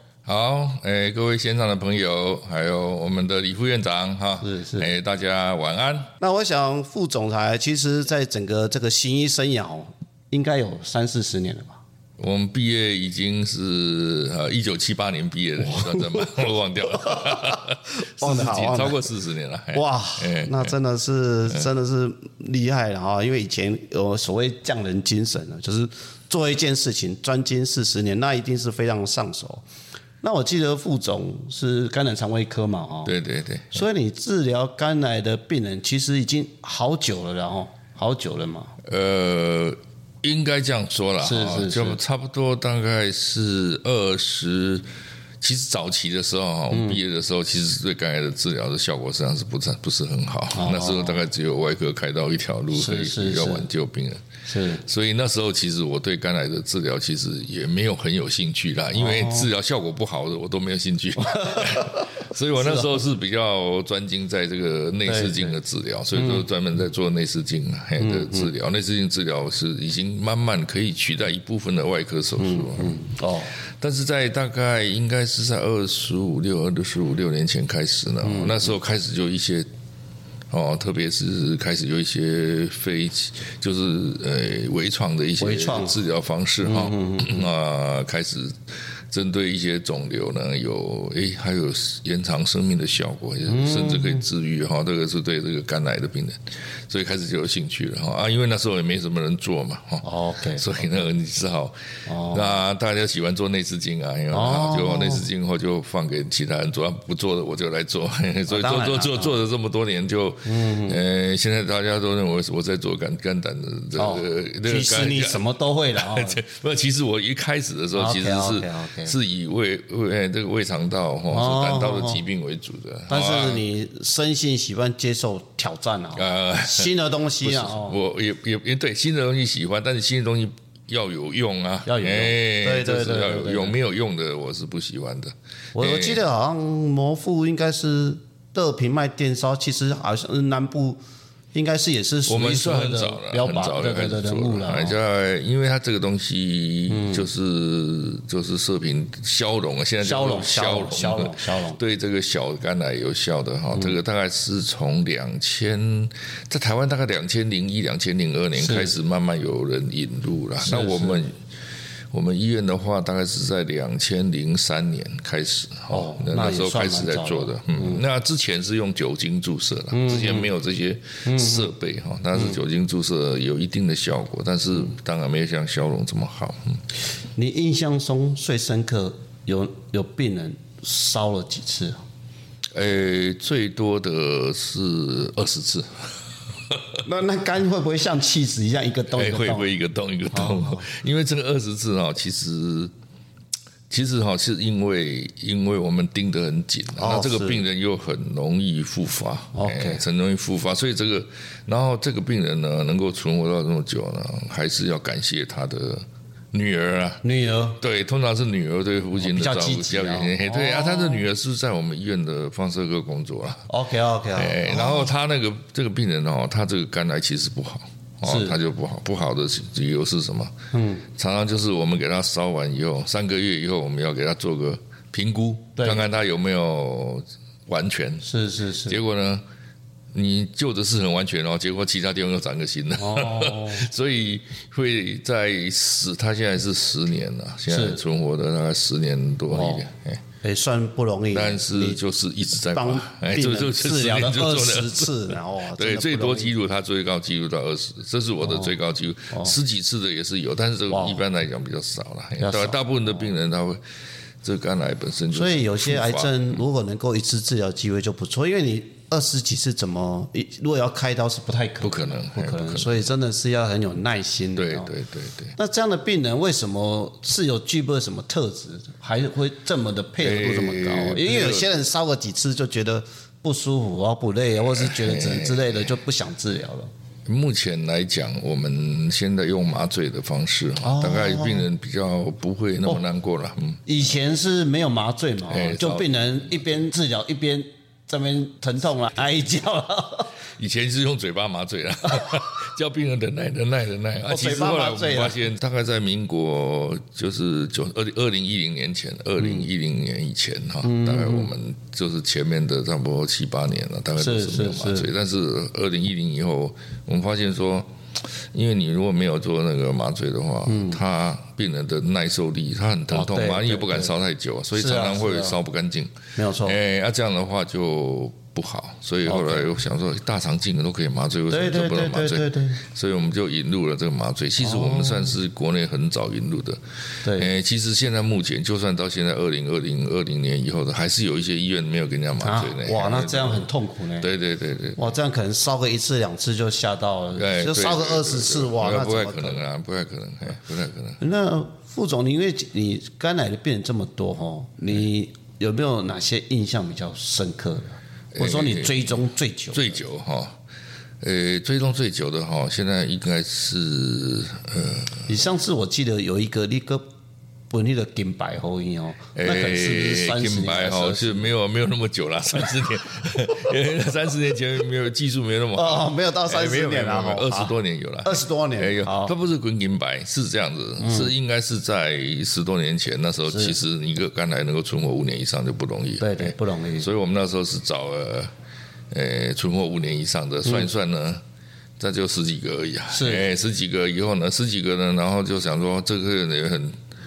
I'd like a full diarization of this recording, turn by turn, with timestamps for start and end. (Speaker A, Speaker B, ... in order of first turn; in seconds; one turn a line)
Speaker A: 0.2-6.1
Speaker B: 4.4-4.9
Speaker B: 6.2-11.8
Speaker A: 12.2-20.7
Speaker B: 15.6-19.0
Speaker B: 19.7-29.6
Speaker B: 30.2-33.1
Speaker A: 33.0-33.8
Speaker B: 33.7-38.8
Speaker A: 38.8-44.9
Speaker B: 41.2-42.0
Speaker A: 45.4-54.2
Speaker B: 46.7-47.0
Speaker B: 50.5-51.2
Speaker B: 52.7-53.7
Speaker B: 54.5-54.8
Speaker A: 54.8-73.0
Speaker B: 58.9-59.5
Speaker B: 61.2-63.0
Speaker B: 65.0-65.6
Speaker B: 66.1-66.5
Speaker B: 68.0-68.5
Speaker B: 72.4-73.5
Speaker A: 73.8-79.7
Speaker B: 78.2-78.7
Speaker A: 80.5-101.8
Speaker B: 85.4-86.0
Speaker B: 86.6-87.5
Speaker B: 93.5-94.2
Speaker B: 100.0-100.7
Speaker B: 102.1-102.6
Speaker A: 102.3-115.4
Speaker B: 104.3-105.3
Speaker B: 108.5-109.4
Speaker B: 110.4-111.0
Speaker B: 114.0-116.4
Speaker A: 115.9-123.6
Speaker B: 117.9-119.1
Speaker B: 121.3-122.2
Speaker B: 123.1-128.0
Speaker A: 126.2-136.2
Speaker B: 131.8-133.8
Speaker B: 135.7-141.0
Speaker B: 141.5-145.0
Speaker A: 142.3-161.3
Speaker B: 146.9-147.3
Speaker B: 150.0-151.8
Speaker B: 158.6-158.9
Speaker B: 160.6-161.2
Speaker A: 162.1-176.8
Speaker B: 165.9-168.0
Speaker B: 169.9-170.5
Speaker B: 171.2-171.7
Speaker B: 172.3-172.6
Speaker B: 177.4-182.0
Speaker A: 182.7-186.1
Speaker A: 186.7-187.0
Speaker B: 187.0-189.7
Speaker A: 189.1-192.9
Speaker B: 190.3-190.9
Speaker A: 193.9-207.2
Speaker B: 196.9-197.6
Speaker B: 199.5-200.0
Speaker B: 207.2-207.8
Speaker A: 207.8-213.7
Speaker B: 209.2-211.3
Speaker B: 213.7-215.1
Speaker A: 214.3-220.5
Speaker B: 218.2-218.6
Speaker B: 220.7-221.1
Speaker A: 221.1-228.3
Speaker B: 225.8-226.0
Speaker B: 228.2-229.0
Speaker A: 228.9-229.4
Speaker A: 230.1-240.2
Speaker B: 232.9-233.9
Speaker B: 237.7-238.0
Speaker B: 239.5-239.9
Speaker B: 240.4-242.0
Speaker A: 241.3-253.8
Speaker B: 242.7-246.5
Speaker B: 248.4-248.7
Speaker B: 249.3-249.6
Speaker B: 250.9-251.2
Speaker B: 252.4-253.3
Speaker A: 254.4-256.6
Speaker B: 255.3-264.9
Speaker A: 261.8-263.1
Speaker A: 264.6-265.5
Speaker B: 265.6-276.9
Speaker A: 270.2-271.7
Speaker A: 274.7-275.9
Speaker A: 277.2-283.8
Speaker B: 280.8-281.6
Speaker B: 283.9-290.3
Speaker A: 285.5-286.8
Speaker A: 290.6-333.7
Speaker B: 294.2-295.4
Speaker B: 299.4-299.7
Speaker B: 300.8-301.5
Speaker B: 304.2-305.1
Speaker B: 310.6-311.0
Speaker B: 313.1-314.1
Speaker B: 314.7-315.6
Speaker B: 316.4-316.8
Speaker B: 319.2-319.7
Speaker B: 321.5-322.8
Speaker B: 324.6-325.4
Speaker B: 327.2-327.5
Speaker B: 332.4-334.3
Speaker A: 334.2-335.1
Speaker B: 335.0-339.6
Speaker A: 337.3-341.2
Speaker B: 341.2-350.0
Speaker A: 348.3-349.1
Speaker A: 349.7-350.6
Speaker A: 351.2-355.3
Speaker B: 355.3-357.0
Speaker B: 357.7-361.5
Speaker A: 359.4-378.5
Speaker B: 365.7-369.3
Speaker B: 371.0-371.3
Speaker B: 373.5-373.8
Speaker B: 376.2-377.1
Speaker A: 379.1-381.4
Speaker A: 382.0-387.0
Speaker B: 383.1-383.5